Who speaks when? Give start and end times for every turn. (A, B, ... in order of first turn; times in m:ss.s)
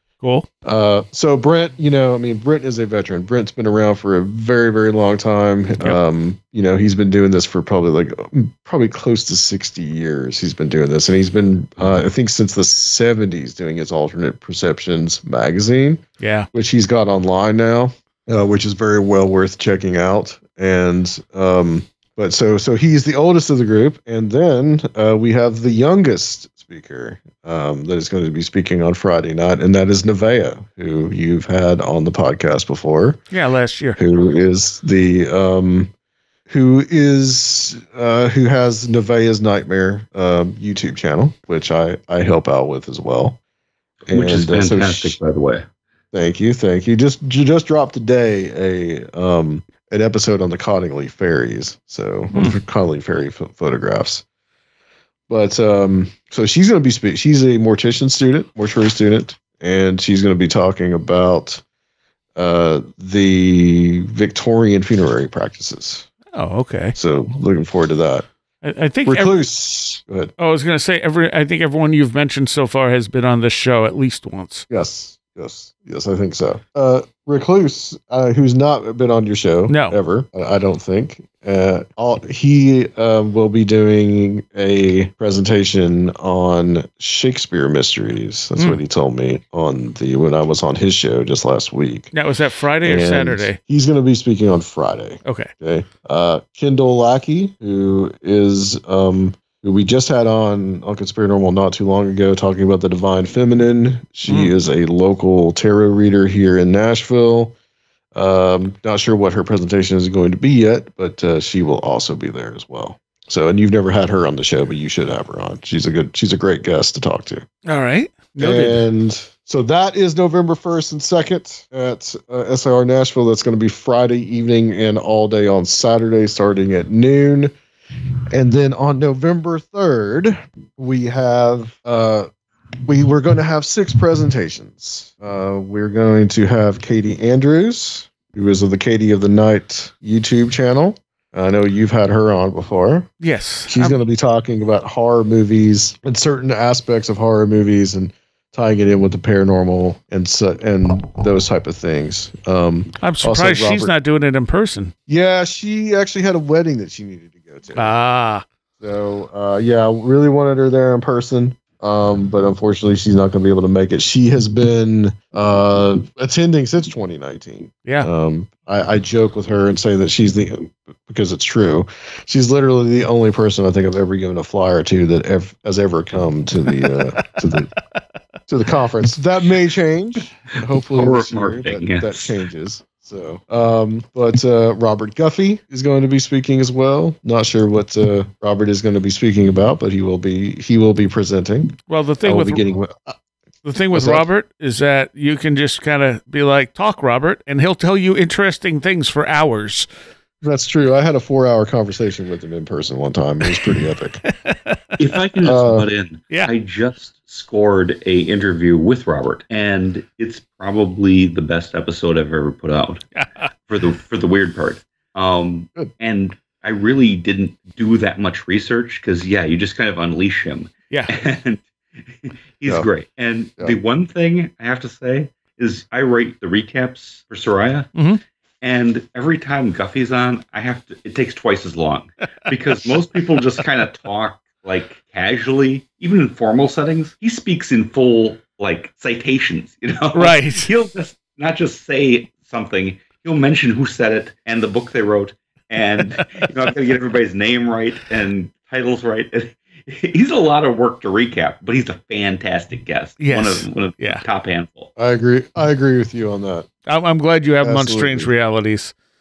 0:00.2-0:00.4 A
0:00.6-0:33.2 B
0:16.2-0:16.5 A
0:33.3-0:34.0 A
0:34.0-0:35.9 B
0:36.5-0:43.4 B
0:44.1-0:45.6 C
0:44.1-0:45.2 B
0:46.1-0:54.2 B
0:52.3-0:52.6 A
0:55.3-1:01.6 B
1:02.4-1:06.1 B
1:06.3-1:07.0 A
1:07.0-1:08.3 B
1:08.6-1:09.3 A
1:09.0-1:10.3 B
1:10.4-1:14.6 A
1:14.7-1:32.1 B
1:19.7-1:20.0 A
1:28.6-1:28.8 A
1:32.1-1:33.6 A
1:32.8-1:47.5 B
1:35.2-1:35.5 A
1:44.3-1:44.5 A
1:48.1-1:57.4 B
1:57.6-1:58.8 A
1:58.4-2:07.5 B
2:08.3-2:12.3 B
2:12.9-2:23.1 B
2:23.2-2:24.0 A
2:23.7-2:33.9 B
2:33.0-2:34.9 A
2:35.1-2:37.9 B
2:37.7-2:38.4 A
2:38.8-2:57.7 B
2:47.8-2:48.1 A
2:58.5-3:13.1 B
3:00.9-3:02.3 C
3:11.9-3:12.6 A
3:13.6-3:19.9 A
3:13.9-3:14.3 B
3:20.4-3:24.2 B
3:23.6-3:24.8 A
3:25.0-3:33.0 C
3:25.4-3:25.9 B
3:33.1-3:33.5 A
3:33.7-3:47.9 C
3:47.9-3:48.2 A
3:48.6-4:14.9 C
4:00.1-4:00.7 A
4:13.2-4:14.2 A
4:15.0-4:16.7 B
4:16.8-4:18.9 A
4:17.6-4:18.3 B